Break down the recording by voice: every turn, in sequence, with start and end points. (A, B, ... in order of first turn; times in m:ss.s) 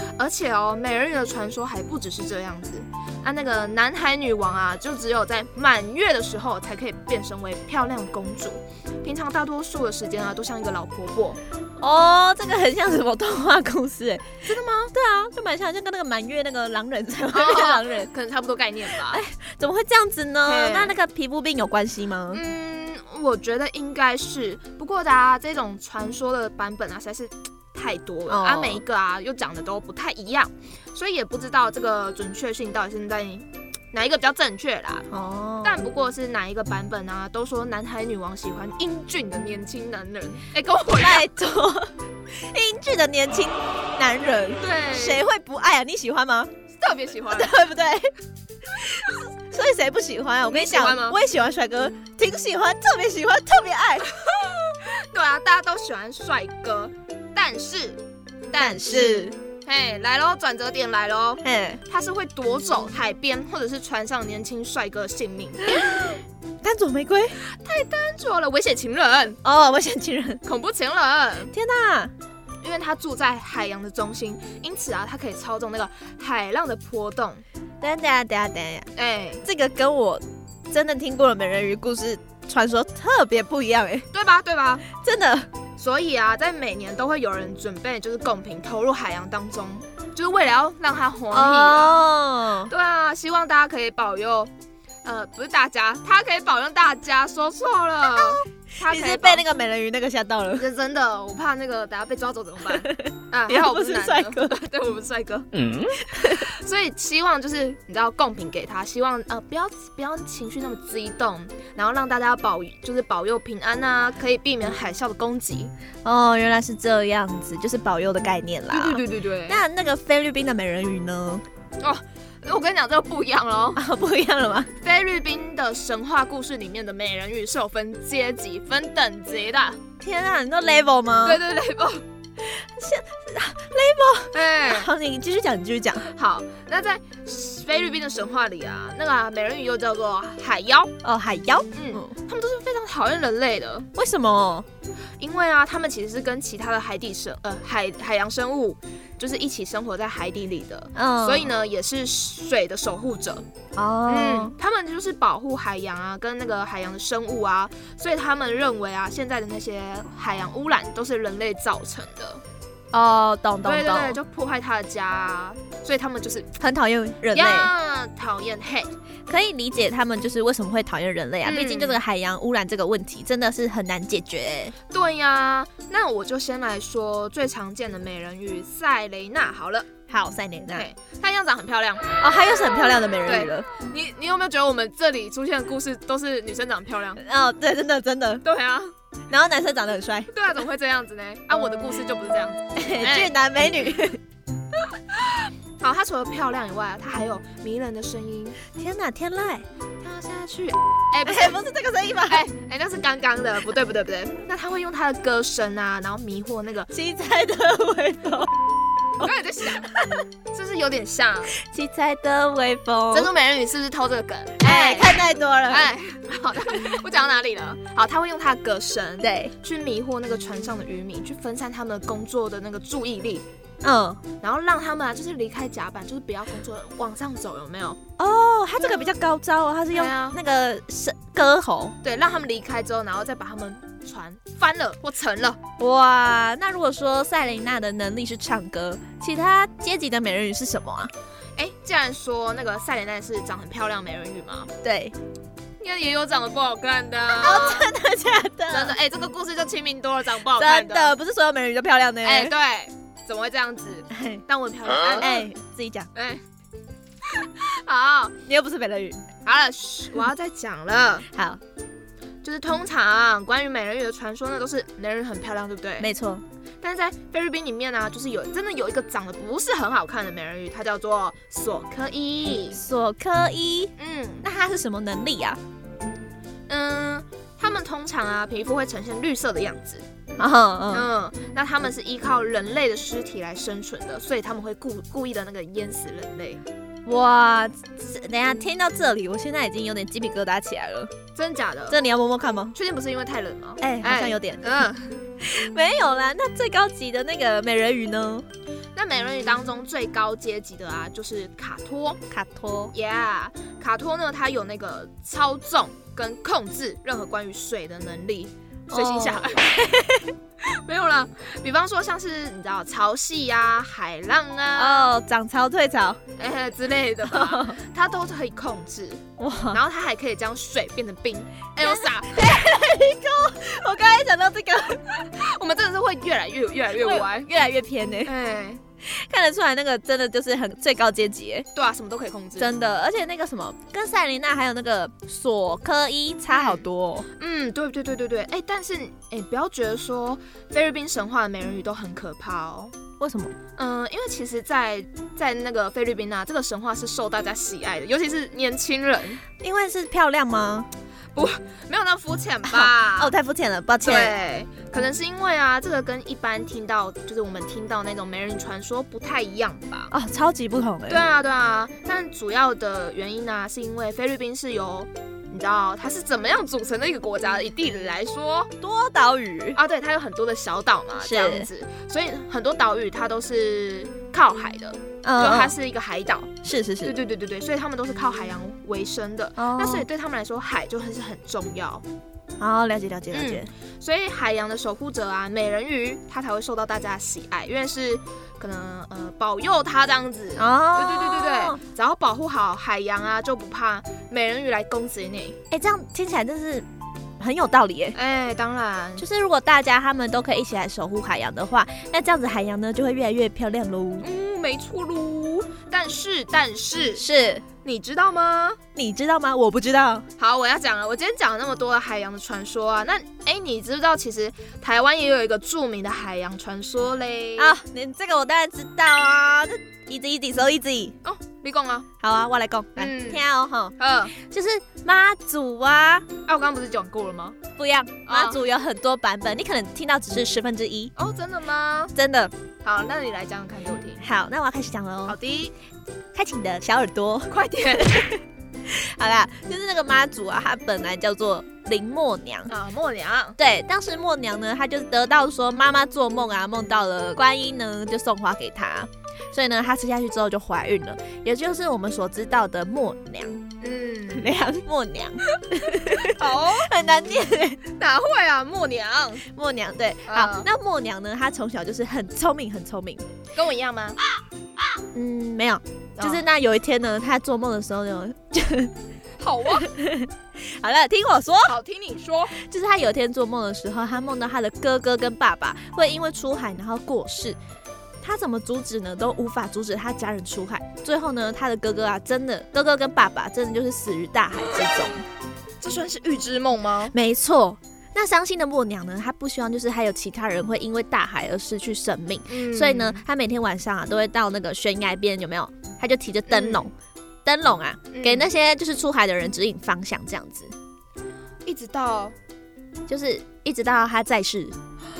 0:00.2-0:11.4 A
0:11.8-0:14.3 B
0:14.4-0:14.9 A
0:14.9-0:18.1 B
0:17.3-0:19.2 A
0:18.9-0:22.4 B
0:20.4-0:21.0 A
0:22.3-0:35.1 A
0:28.3-0:28.8 B
0:35.1-0:35.8 B
0:35.6-0:41.3 A
0:41.0-0:46.5 B
0:44.6-0:45.2 A
0:46.8-0:47.6 A
0:47.3-0:48.1 B
0:48.7-0:54.1 B
0:50.5-0:51.2 A
0:54.1-1:05.7 A
0:58.6-0:59.3 B
1:01.4-1:01.8 B
1:05.7-1:06.1 B
1:06.6-1:07.4 B
1:07.4-1:09.4 A
1:09.4-1:10.4 B
1:10.4-1:11.5 A
1:11.5-1:12.1 B
1:12.6-1:17.4 A
1:17.8-1:18.9 B
1:19.0-1:19.5 A
1:19.4-1:24.1 B
1:24.1-1:24.9 A
1:25.0-1:25.5 B
1:25.8-1:32.0 A
1:31.3-1:32.7 B
1:32.7-1:34.5 A
1:35.0-1:39.4 A
1:38.9-1:40.7 B
1:40.6-1:55.7 A
1:42.7-1:44.6 B
1:46.0-1:46.4 B
1:56.0-2:01.4 B
1:58.7-1:59.6 A
2:01.8-2:03.8 A
2:03.8-2:04.7 B
2:04.8-2:09.8 A
2:10.0-2:11.4 B
2:11.2-2:12.0 A
2:12.4-2:16.1 B
2:14.3-2:14.9 A
2:16.0-2:20.9 A
2:21.0-2:22.1 B
2:21.7-2:23.9 A
2:24.0-2:24.7 B
2:25.2-2:33.5 A
2:31.0-2:31.5 B
2:33.8-2:34.6 B
2:34.1-2:42.4 A
2:42.9-2:44.2 B
2:43.6-2:46.5 A
2:46.6-2:47.7 B
2:47.3-2:48.9 A
2:49.3-2:54.7 B
2:51.4-2:52.0 A
2:54.9-2:59.9 A
3:00.1-3:00.9 B
3:00.7-3:02.1 A
3:02.2-3:03.7 B
3:03.2-3:07.2 A
3:07.2-3:08.4 B
3:08.4-3:08.9 A
3:09.3-3:10.3 B
3:10.3-3:13.3 A
3:12.8-3:14.2 B
3:14.9-3:18.6 A
3:18.8-3:19.6 B
3:20.0-3:21.6 A
3:21.2-3:22.5 B
3:22.3-3:26.9 A
3:26.9-3:28.5 B
3:29.2-3:29.9 A
3:29.9-3:30.2 B
3:30.5-3:31.5 A
3:31.6-3:33.3 B
3:33.1-3:43.4 A
3:34.6-3:35.9 B
3:39.2-3:39.5 B
3:43.8-3:44.2 B
3:44.4-3:48.0 A
3:48.2-3:52.0 B
3:48.8-3:49.2 A
3:49.9-3:50.4 A
3:52.0-3:55.6 A
3:55.8-4:01.1 B
4:01.6-4:04.7 A
4:04.8-4:05.2 B
4:05.8-4:07.9 A
4:07.4-4:08.9 B
4:08.7-4:11.2 A
4:10.6-4:12.5 B
4:12.2-4:15.4 A
4:14.1-4:14.4 B
4:15.2-4:16.1 B
4:16.1-4:16.4 A
4:17.3-4:18.4 A
4:18.5-4:19.2 B
4:19.4-4:21.3 A
4:21.3-4:21.6 B
4:22.4-4:26.1 A
4:26.0-4:26.4 B
4:26.8-4:32.8 A
4:32.7-4:35.6 B
4:34.0-4:34.5 A
4:36.7-4:40.0 A
4:40.4-4:41.1 B
4:40.9-4:46.6 A
4:47.1-4:51.1 B
4:51.4-4:52.0 A
4:51.9-4:52.8 B
4:52.7-4:55.2 A
4:53.8-4:54.6 B
4:55.4-4:58.5 B
4:59.0-5:02.2 A
5:02.3-5:02.9 B
5:02.9-5:09.9 A
5:08.9-5:10.3 B
5:10.6-5:15.1 A
5:14.8-5:16.2 B
5:16.4-5:22.6 A
5:17.3-5:17.8 B
5:19.4-5:19.8 B
5:21.8-5:25.0 B
5:25.1-5:27.5 A
5:26.9-5:28.3 B
5:28.2-5:28.8 A
5:29.0-5:31.7 B
5:31.8-5:32.7 A
5:32.6-5:37.3 B
5:36.5-5:36.8 A
5:37.4-5:42.9 A
5:43.2-5:43.5 B
5:43.8-5:49.4 A
5:49.6-5:50.9 B
5:51.4-5:53.3 A
5:52.7-5:54.4 B
5:54.0-6:00.1 A
6:00.1-6:01.2 B
6:01.1-6:08.7 A
6:08.8-6:09.8 B
6:09.8-6:16.5 A
6:11.2-6:11.7 B
6:15.2-6:15.7 B
6:16.6-6:17.2 B
6:17.0-6:22.0 A
6:19.6-6:20.1 B
6:22.6-6:23.7 B
6:23.3-6:35.6 A
6:30.6-6:31.8 B
6:35.7-6:36.9 B
6:37.4-6:38.2 B
6:38.2-6:39.2 A
6:39.2-6:44.2 B
6:44.2-6:47.2 A
6:47.2-6:47.6 B
6:47.8-6:48.8 A
6:49.0-6:50.2 B
6:50.4-6:57.8 A
6:57.6-7:01.2 B
7:01.2-7:02.1 A
7:02.2-7:06.2 B
7:03.0-7:03.4 A
7:04.0-7:04.3 A
7:06.5-7:07.6 A
7:07.8-7:11.1 B
7:08.3-7:08.6 A
7:11.2-7:12.1 A
7:12.2-7:12.5 B
7:12.8-7:14.2 A
7:14.2-7:15.4 B
7:15.3-7:15.7 A
7:16.3-7:22.7 B
7:17.5-7:18.3 A
7:22.7-7:23.6 A
7:23.6-7:33.6 B
7:33.8-7:34.5 A
7:34.3-7:37.8 B
7:35.6-7:36.9 A
7:37.9-7:39.4 A
7:39.5-7:43.2 B
7:40.3-7:40.7 A
7:43.6-7:44.2 A
7:45.1-7:48.9 B
7:46.2-7:46.5 A
7:49.4-7:49.9 A
7:49.7-7:51.8 B
7:51.7-7:52.6 A
7:52.6-7:57.6 B
7:58.2-8:05.2 B
8:05.8-8:07.2 A
8:07.1-8:16.9 B
8:12.5-8:13.2 A
8:16.5-8:16.9 A
8:17.4-8:20.7 B
8:18.1-8:18.5 A
8:21.6-8:22.4 A
8:23.1-8:24.8 B